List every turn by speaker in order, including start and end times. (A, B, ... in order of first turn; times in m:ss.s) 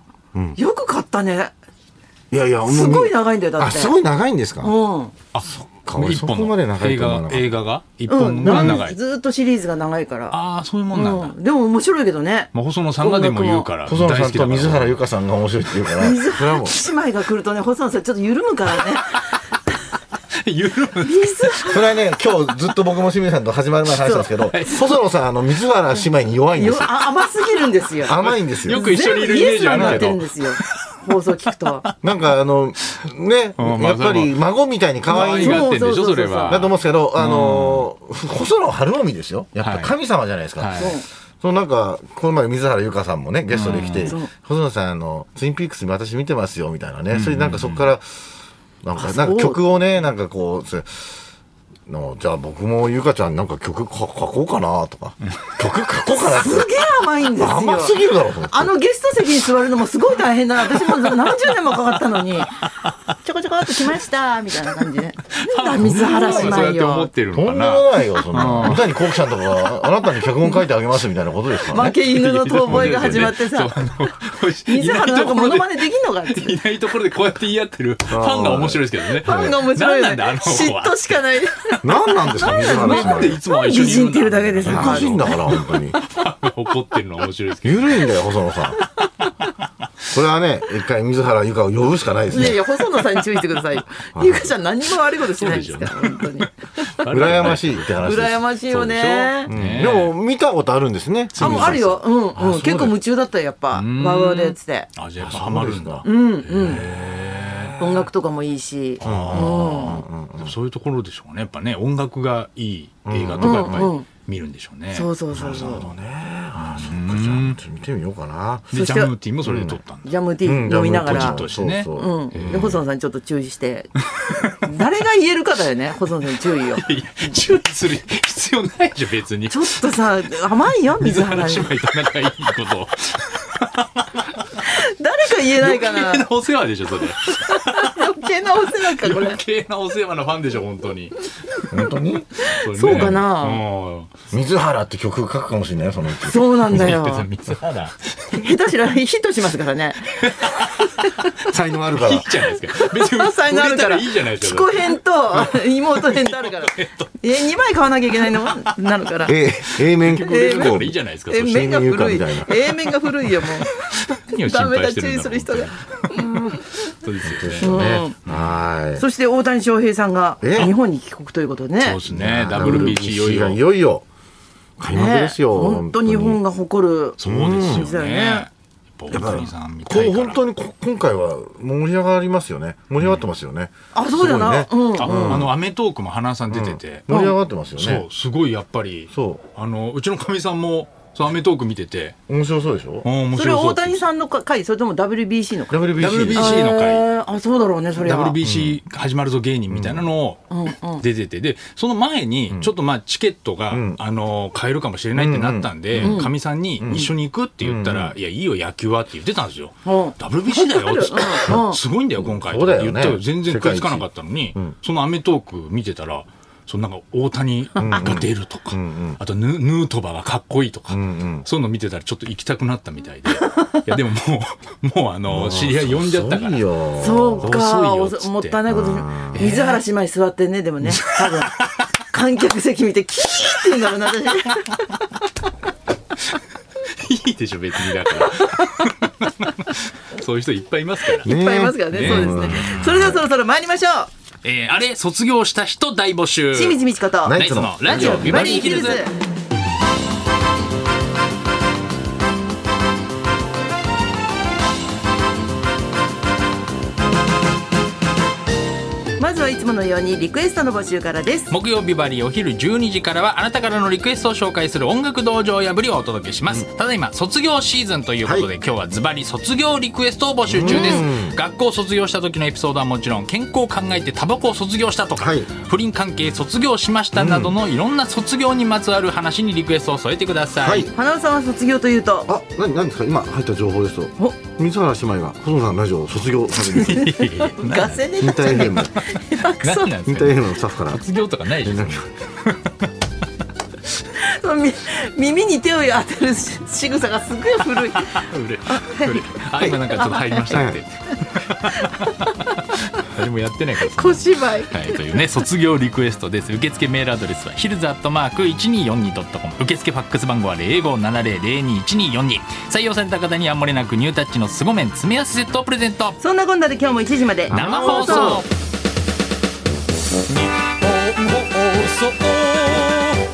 0:00.3-0:00.6 A
0:00.6-0:01.5 B
0:02.3-0:04.7 A
0:02.6-0:03.9 B
0:04.6-0:05.1 B
0:05.3-0:09.0 C
0:05.4-0:07.5 A
0:08.1-0:10.4 B
0:08.4-0:08.8 A
0:10.3-0:11.4 C
0:10.9-0:13.7 B
0:12.5-0:15.0 C
0:13.8-0:16.8 A
0:15.9-0:19.8 B
0:20.3-0:21.8 C
0:21.0-0:21.8 B
0:21.7-0:26.9 A
0:24.0-0:24.5 B
0:24.5-0:24.9 C
0:26.6-0:31.8 B
0:28.0-0:28.8 A
0:28.1-0:31.0 C
0:29.7-0:30.1 A
0:31.7-0:32.2 C
0:32.0-0:35.7 A
0:33.6-0:34.4 C
0:35.1-0:37.9 C
0:35.1-0:36.6 B
0:36.5-0:48.2 A
0:39.6-0:39.9 C
0:40.6-0:41.0 C
0:40.8-0:41.0 B
0:43.5-0:44.2 C
0:44.0-0:44.3 B
0:47.1-0:47.9 C
0:48.8-0:51.2 A
0:49.0-0:49.6 B
0:51.9-0:56.7 A
0:55.3-0:55.6 C
0:56.1-1:02.6 B
0:57.4-0:58.7 A
1:00.8-1:01.4 C
1:02.4-1:02.9 C
1:03.2-1:07.1 B
1:05.3-1:09.1 C
1:05.8-1:06.7 A
1:07.3-1:11.9 A
1:11.7-1:13.9 B
1:11.7-1:21.4 C
1:14.5-1:16.6 B
1:18.1-1:19.6 A
1:19.2-1:25.6 B
1:21.8-1:23.4 A
1:22.4-1:28.3 C
1:24.6-1:26.0 A
1:27.6-1:28.8 A
1:30.1-1:32.6 A
1:32.3-1:36.9 B
1:34.1-1:34.5 A
1:35.0-1:40.1 C
1:37.1-1:38.5 A
1:38.0-1:39.5 B
1:39.5-1:43.0 A
1:41.3-1:41.9 C
1:41.4-1:44.9 B
1:43.7-1:47.8 C
1:45.2-1:46.0 A
1:46.0-1:46.8 B
1:47.8-1:50.0 B
1:49.0-1:55.9 C
1:49.0-1:50.5 A
1:53.0-1:53.9 A
1:53.4-1:54.1 B
1:54.9-1:55.8 B
1:55.3-1:58.7 A
1:56.5-1:57.6 C
1:58.7-2:00.0 C
1:58.7-1:59.1 B
1:59.4-1:59.8 A
2:00.0-2:03.9 B
2:00.4-2:02.8 A
2:00.7-2:02.8 C
2:04.2-2:04.6 C
2:04.6-2:06.8 B
2:06.7-2:10.0 C
2:09.5-2:11.7 B
2:11.0-2:14.6 C
2:14.6-2:16.3 B
2:15.4-2:21.6 C
2:17.2-2:19.4 B
2:21.7-2:23.2 A
2:22.4-2:23.6 B
2:22.5-2:24.1 C
2:24.3-2:26.9 A
2:26.2-2:27.3 B
2:26.4-2:28.5 C
2:28.3-2:31.3 B
2:30.2-2:31.0 C
2:31.4-2:32.5 A
2:31.9-2:37.1 C
2:32.6-2:39.3 B
2:38.4-2:38.7 C
2:39.2-2:42.6 A
2:39.7-2:41.8 C
2:40.2-2:40.8 B
2:41.3-2:43.7 B
2:42.8-2:48.6 C
2:44.3-2:46.9 B
2:47.2-2:49.0 A
2:47.6-2:48.2 B
2:49.0-2:52.0 B
2:50.4-2:50.7 A
2:51.8-2:53.6 C
2:52.0-2:54.0 A
2:52.5-2:53.0 B
2:54.8-2:56.4 A
2:54.9-2:58.5 B
2:57.2-3:00.4 C
2:57.2-2:57.9 A
2:59.1-3:05.5 A
3:03.0-3:03.2 C
3:03.9-3:05.4 B
3:05.0-3:07.1 C
3:06.5-3:08.1 A
3:07.1-3:07.3 B
3:07.7-3:12.2 C
3:09.1-3:09.4 A
3:12.3-3:13.1 A
3:13.0-3:14.0 C
3:13.3-3:18.4 B
3:15.7-3:16.6 A
3:16.0-3:17.0 C
3:18.0-3:46.6 C
3:18.4-3:18.8 A
3:19.7-3:20.1 A
3:20.5-3:21.0 B
3:23.7-3:24.0 A
3:25.1-3:26.2 A
3:26.0-3:26.3 B
3:26.8-3:28.1 A
3:29.8-3:31.8 B
3:32.2-3:34.8 A
3:37.8-3:39.2 A
3:40.9-3:41.5 A
3:43.4-3:43.8 B
3:45.3-3:47.5 A
3:47.0-3:55.3 B
3:47.4-3:48.6 C
3:48.7-3:49.5 A
3:49.3-3:49.8 C
3:50.8-3:51.7 C
3:56.8-4:01.3 C
4:01.1-4:04.1 B
4:01.2-4:03.2 A
4:01.9-4:03.2 C
4:04.4-4:09.0 C
4:06.5-4:09.1 B
4:07.2-4:08.4 A
4:19.2-4:21.5 B
4:21.5-4:40.9 C
4:28.2-4:28.5 A
4:30.5-4:31.4 A
4:30.6-4:31.0 B
4:35.2-4:35.5 A
4:37.1-4:37.5 A
4:40.6-4:40.9 A
4:40.9-4:42.3 B
4:42.3-4:47.1 A
4:46.7-4:48.0 C
4:46.7-4:50.0 B
4:48.2-4:48.9 A
4:49.3-4:52.9 C
4:50.0-4:51.0 A
4:51.6-4:52.0 A
4:54.1-5:00.7 B
4:57.7-5:16.2 C
5:00.5-5:00.8 A
5:01.7-5:02.1 B
5:03.8-5:05.0 B
5:16.2-5:18.4 B
5:17.5-5:18.4 A
5:17.5-5:18.5 C
5:20.4-5:23.1 C